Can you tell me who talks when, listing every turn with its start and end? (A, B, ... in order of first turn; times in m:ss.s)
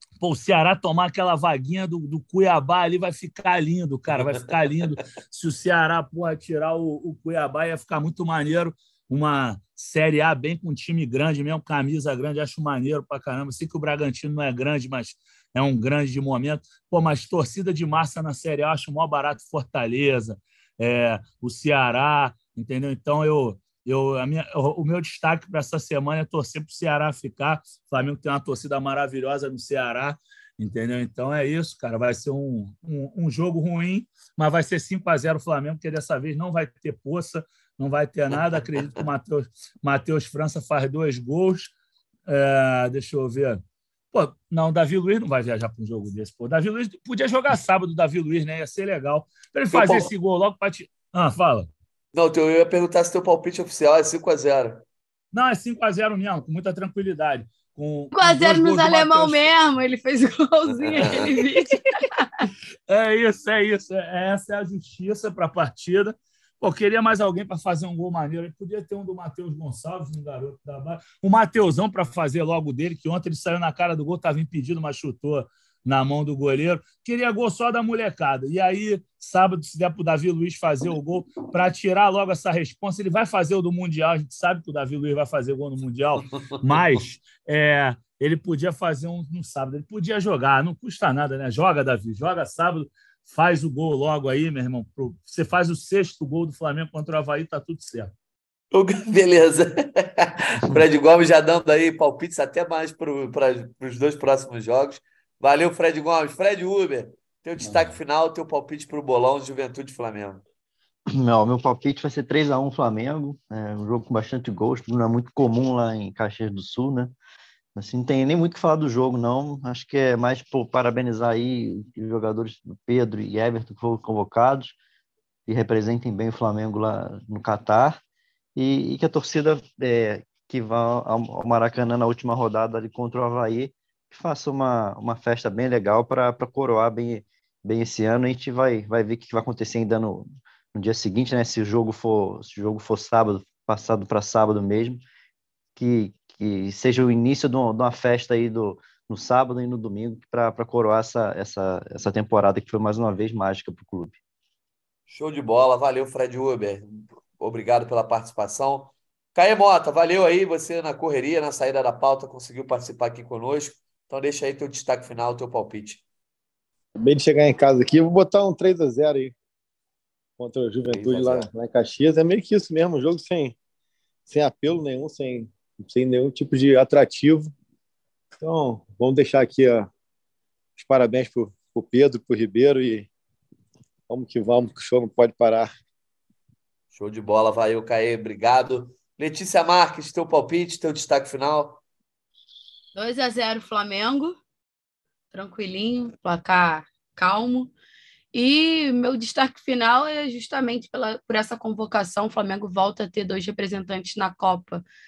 0:00.2-0:41.7 A
0:42.3-0:43.6 A
0:44.1-0:51.7 A
0:49.7-0:50.1 B
0:52.1-0:54.8 B
0:55.3-0:59.5 A
0:58.1-1:02.5 C
1:00.9-1:01.3 B
1:02.9-1:38.1 A
1:38.7-1:50.4 B
1:51.1-1:57.1 D
1:57.7-2:04.8 D
2:05.5-2:08.0 D
2:08.6-2:25.0 D
2:25.8-2:34.2 D
2:35.1-2:46.0 B
2:47.0-2:49.3 E
2:50.4-2:53.6 E
2:50.9-2:51.5 B
2:54.3-2:57.5 E
2:58.4-2:59.9 E
3:00.8-3:03.1 E
3:04.1-3:05.7 E
3:06.9-3:11.8 B
3:12.9-3:14.4 C
3:15.3-3:17.7 C
3:18.3-3:24.8 C